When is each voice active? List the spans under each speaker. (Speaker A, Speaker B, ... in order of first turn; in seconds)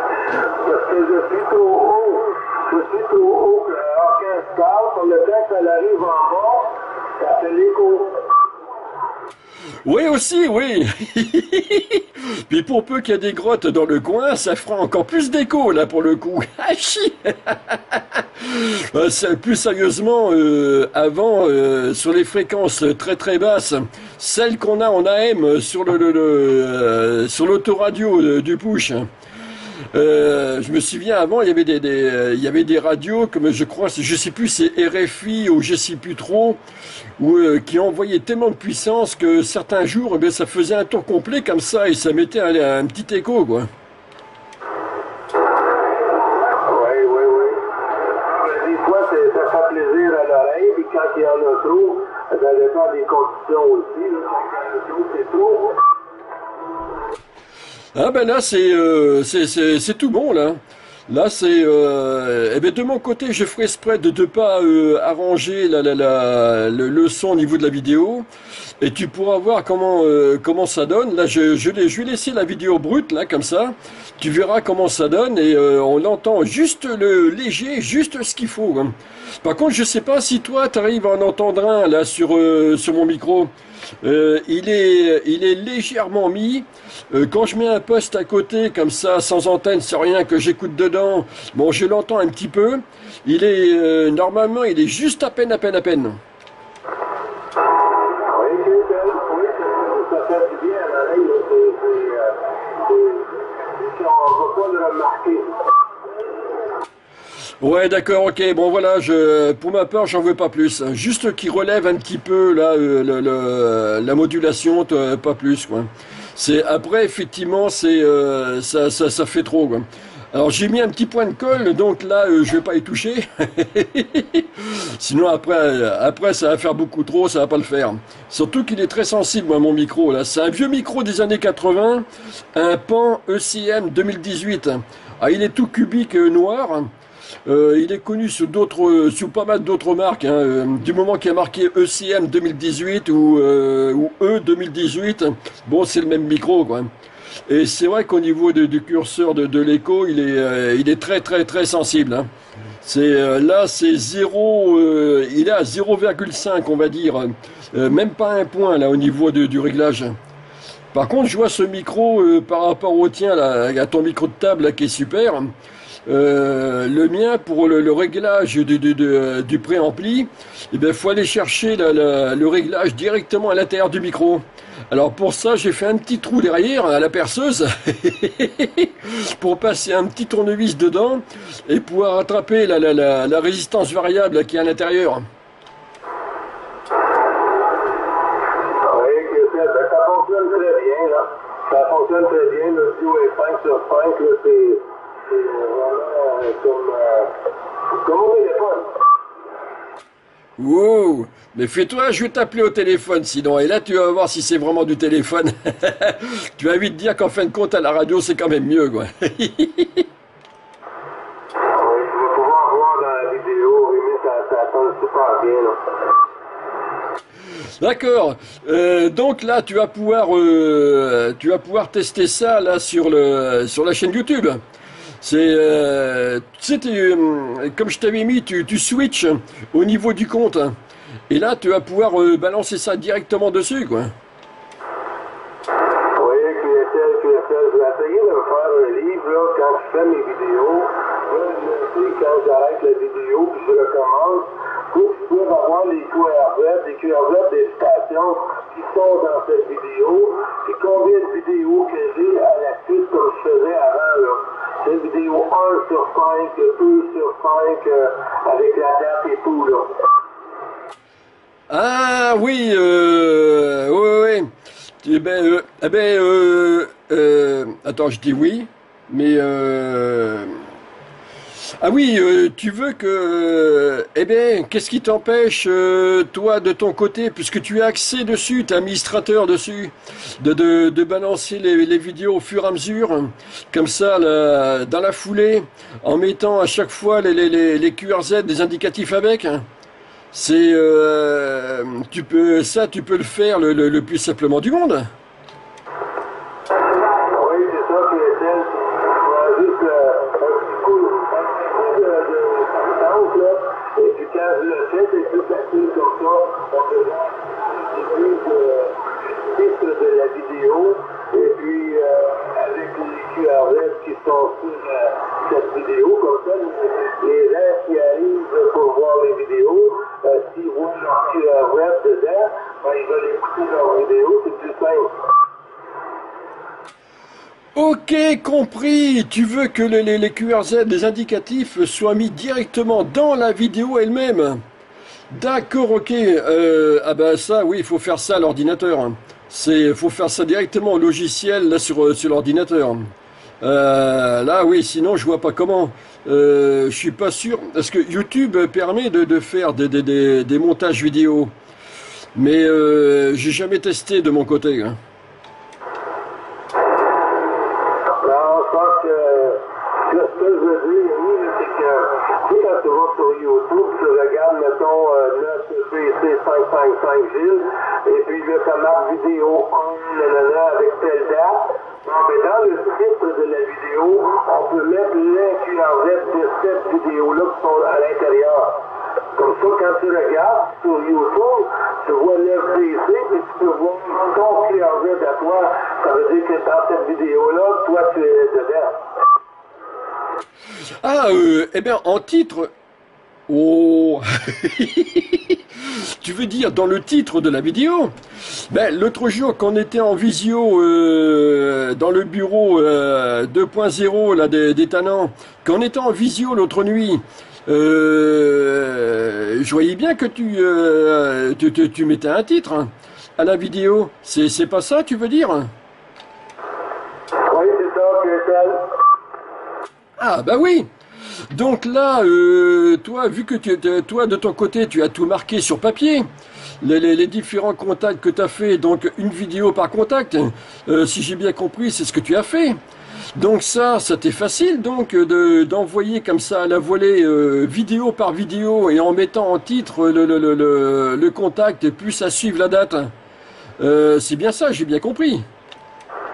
Speaker A: 0.6-8.2, 46.6-47.6, 48.2-55.8, 98.2-105.5, 188.8-197.3, 197.9-198.9, 211.7-215.8, 236.2-259.9, 297.2-325.1, 358.2-389.0, 417.5-418.9
Speaker B: 9.8-29.1, 29.9-36.6, 37.2-43.7, 57.9-68.2, 68.8-83.5, 84.0-96.2, 107.6-136.9, 137.4-146.9, 147.5-152.3, 152.8-160.1, 160.9-165.5, 166.1-185.2, 200.6-210.1, 217.8-224.6, 225.2-230.7, 231.3-234.1, 261.7-264.5, 265.0-270.6, 271.8-289.6, 290.3-295.1, 327.7-334.6, 335.3-343.1, 343.6-351.5, 352.3-355.0, 391.0-392.7, 393.5-395.6, 396.2-398.1, 398.7-415.7, 420.2-420.9, 421.5-426.2, 426.8-432.8, 433.3-443.1, 443.8-445.4